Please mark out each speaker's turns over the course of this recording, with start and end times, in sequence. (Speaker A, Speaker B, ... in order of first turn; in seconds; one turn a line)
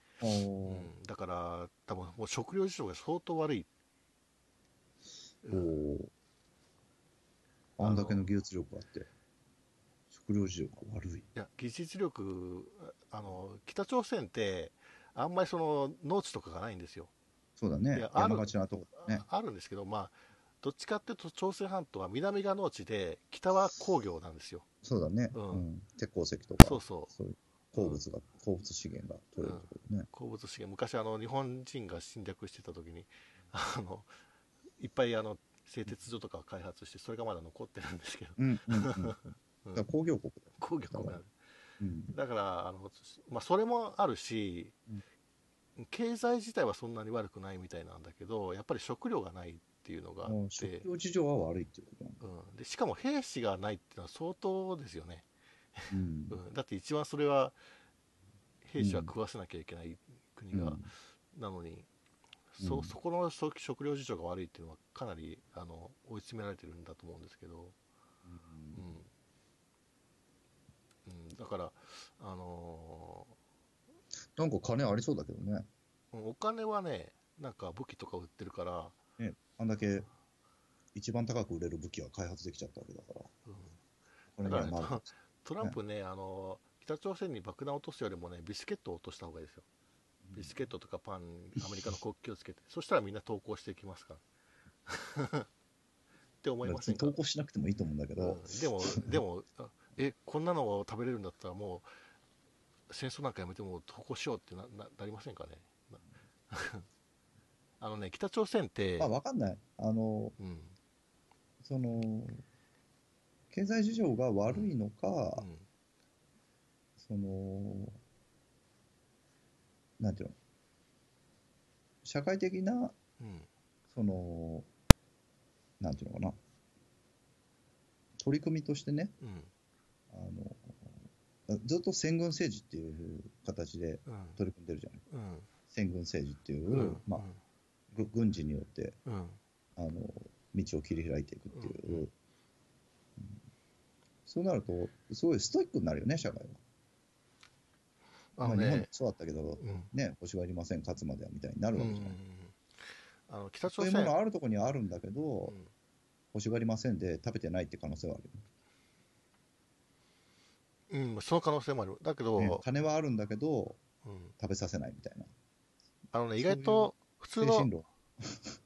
Speaker A: 0.2-0.9
Speaker B: 0.6-3.7
Speaker B: 5.4-5.7
Speaker A: 5.5-6.1
Speaker A: 7.8-9.1
Speaker B: 7.8-8.3
Speaker A: 10.1-11.3
Speaker B: 11.3-17.1
Speaker A: 17.6-19.2
Speaker B: 17.9-24.6
Speaker A: 24.8-30.1
Speaker B: 25.3-25.6
Speaker B: 26.6-27.1
Speaker B: 27.7-28.0
Speaker B: 29.4-34.1
Speaker B: 34.8-39.8
Speaker A: 38.4-39.2
Speaker A: 39.7-41.2
Speaker B: 40.6-41.3
Speaker A: 41.8-42.1
Speaker B: 42.1-44.7
Speaker B: 45.8-50.9
Speaker A: 50.2-52.2
Speaker B: 52.2-55.2
Speaker B: 55.8-57.5
Speaker A: 55.9-56.4
Speaker B: 58.6-61.9
Speaker A: 58.8-59.1
Speaker A: 60.5-60.9
Speaker B: 62.5-67.7
Speaker A: 62.6-63.0
Speaker A: 68.2-69.0
Speaker B: 68.7-69.1
Speaker B: 71.0-73.3
Speaker A: 74.3-75.7
Speaker B: 76.1-79.0
Speaker A: 79.2-80.1
Speaker A: 80.9-83.3
Speaker B: 83.5-83.8
Speaker A: 84.3-85.1
Speaker B: 84.4-89.7
Speaker A: 90.2-90.5
Speaker B: 90.3-94.2
Speaker B: 94.9-95.5
Speaker B: 96.4-97.2
Speaker A: 96.6-99.2
Speaker B: 98.2-101.9
Speaker B: 102.9-106.9
Speaker B: 107.8-109.1
Speaker A: 109.0-110.3
Speaker B: 110.4-110.8
Speaker A: 111.6-112.4
Speaker A: 113.5-115.5
Speaker B: 115.3-115.7
Speaker A: 117.0-118.0
Speaker A: 120.0-120.3
Speaker A: 122.0-122.9
Speaker B: 123.2-123.5
Speaker A: 123.9-124.7
Speaker A: 125.8-126.4
Speaker A: 128.2-129.1
Speaker B: 129.2-129.5
Speaker A: 130.1-135.0
Speaker B: 134.1-134.4
Speaker B: 135.1-135.5
Speaker A: 135.7-137.2
Speaker B: 136.7-137.4
Speaker A: 137.9-139.0
Speaker B: 139.1-139.4
Speaker A: 139.8-142.1
Speaker B: 141.5-142.1
Speaker A: 144.3-146.6
Speaker B: 148.3-148.9
Speaker A: 148.4-152.2
Speaker B: 149.6-149.9
Speaker B: 151.8-152.6
Speaker B: 153.3-154.2
Speaker A: 153.7-155.6
Speaker B: 155.4-155.7
Speaker A: 156.3-158.4
Speaker B: 160.9-162.6
Speaker A: 162.3-163.8
Speaker B: 164.0-164.3
Speaker A: 164.4-165.3
Speaker B: 166.1-167.7
Speaker A: 166.4-168.6